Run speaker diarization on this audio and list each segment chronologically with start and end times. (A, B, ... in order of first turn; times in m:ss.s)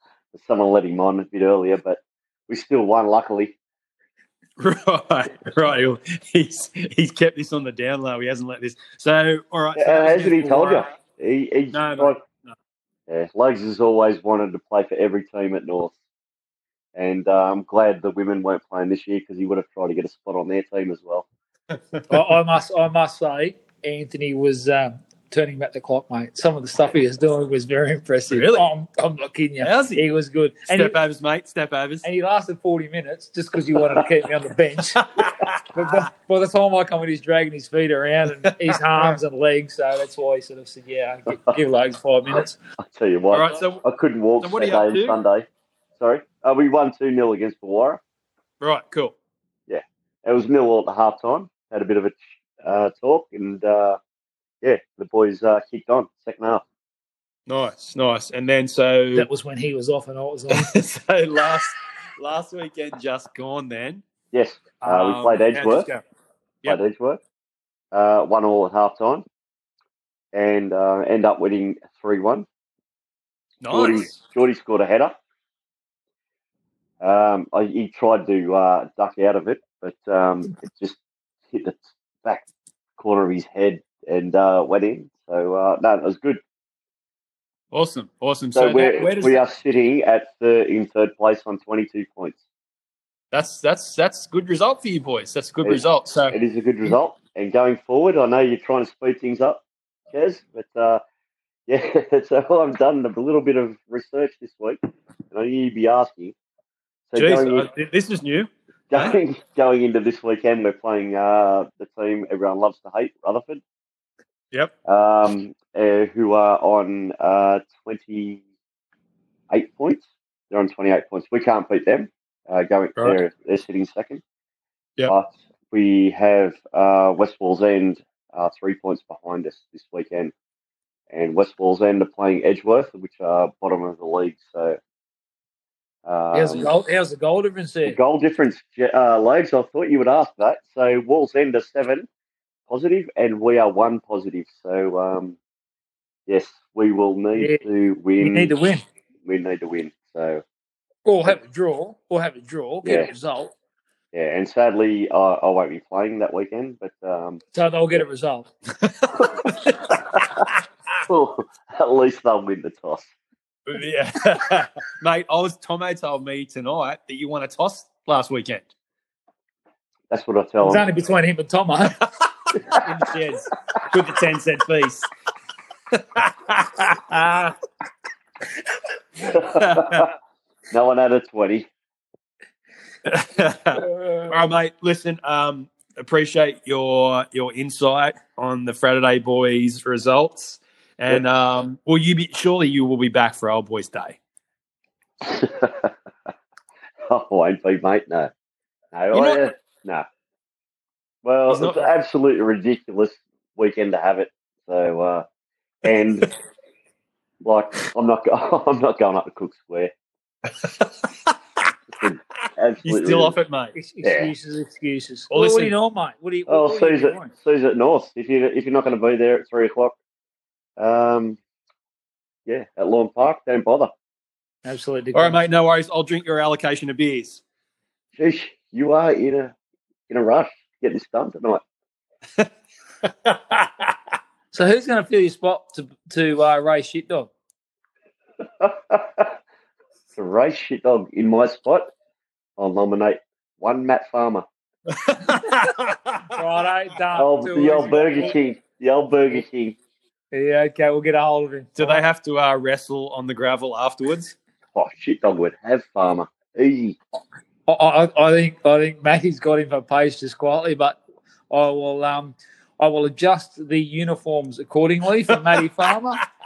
0:00.3-0:03.6 A
0:04.6-0:10.9 B
0:09.8-0:12.2 A
0:11.7-0:12.6 B
0:13.1-0:15.9 A
0:17.0-0:21.3 A
0:21.7-0:22.0 B
0:22.1-0:31.0 C
0:28.3-0:28.6 B
0:29.6-0:30.0 B
0:30.7-0:32.0 B
0:32.0-0:42.6 C
0:35.0-0:36.0 B
0:38.4-0:39.2 B
0:42.8-0:45.5 A
0:43.3-0:43.8 B
0:44.4-0:45.2 B
0:46.0-0:48.0 A
0:48.6-0:49.2 B
0:49.7-0:54.0 A
0:54.6-0:56.6 A
0:57.5-0:59.3 B
0:59.1-1:00.7 C
1:00.5-1:04.0 B
1:04.3-1:05.9 A
1:04.8-1:06.0 B
1:06.6-1:07.2 A
1:07.9-1:09.2 A
1:10.3-1:12.5 A
1:13.6-1:14.2 B
1:13.7-1:15.2 A
1:17.0-1:21.0 A
1:21.5-1:26.4 A
1:27.7-1:29.4 B
1:28.6-1:32.4 A
1:33.3-1:36.4 B
1:35.6-1:41.0 A
1:41.7-1:44.8 A
1:45.3-1:46.4 A
1:47.1-1:47.7 A
1:47.2-1:49.2 B
1:48.9-1:53.6 A
1:54.8-1:58.4 A
1:59.5-2:04.2 A
2:05.1-2:10.3 A
2:11.1-2:14.8 A
2:16.0-2:16.7 A
2:16.3-2:18.0 C
2:17.9-2:22.1 A
2:22.7-2:25.4 A
2:26.3-2:28.6 A
2:27.4-2:27.6 C
2:28.2-2:28.8 C
2:29.3-2:30.4 A
2:31.0-2:33.5 C
2:32.8-2:33.1 A
2:34.1-2:37.4 A
2:37.5-2:38.5 C
2:38.8-2:39.8 B
2:39.2-2:40.4 A
2:41.1-2:43.1 A
2:43.7-2:48.6 B
2:50.1-2:50.8 A
2:50.6-2:52.1 C
2:52.7-2:55.1 B
2:55.9-2:57.6 B
2:59.2-3:00.1 B
2:59.2-3:00.1 A
3:00.7-3:01.7 A
3:03.0-3:14.2 B
3:15.2-3:15.9 A
3:17.1-3:18.3 A
3:18.9-3:20.0 A
3:19.1-3:19.4 B
3:21.2-3:25.2 A
3:21.5-3:21.9 B
3:25.8-3:26.3 A
3:27.4-3:29.9 A
3:30.6-3:31.1 B
3:31.9-3:33.4 A
3:32.8-3:33.7 B
3:33.8-3:37.3 C
3:34.0-3:34.3 A
3:35.3-3:35.7 B
3:36.5-3:40.0 A
3:40.8-3:41.4 A
3:42.5-3:43.9 A
3:44.6-3:45.4 C
3:45.1-3:47.4 B
3:48.2-3:49.5 A
3:50.1-3:51.6 A
3:53.2-3:53.9 B
3:54.5-3:57.3 C
3:58.4-3:59.4 A
4:00.2-4:01.9 A
4:02.6-4:04.4 A
4:04.9-4:06.2 B
4:06.3-4:08.4 C
4:07.2-4:09.8 A
4:10.3-4:12.0 C
4:11.8-4:14.4 B
4:14.7-4:17.0 A
4:17.7-4:21.0 C
4:21.5-4:26.2 C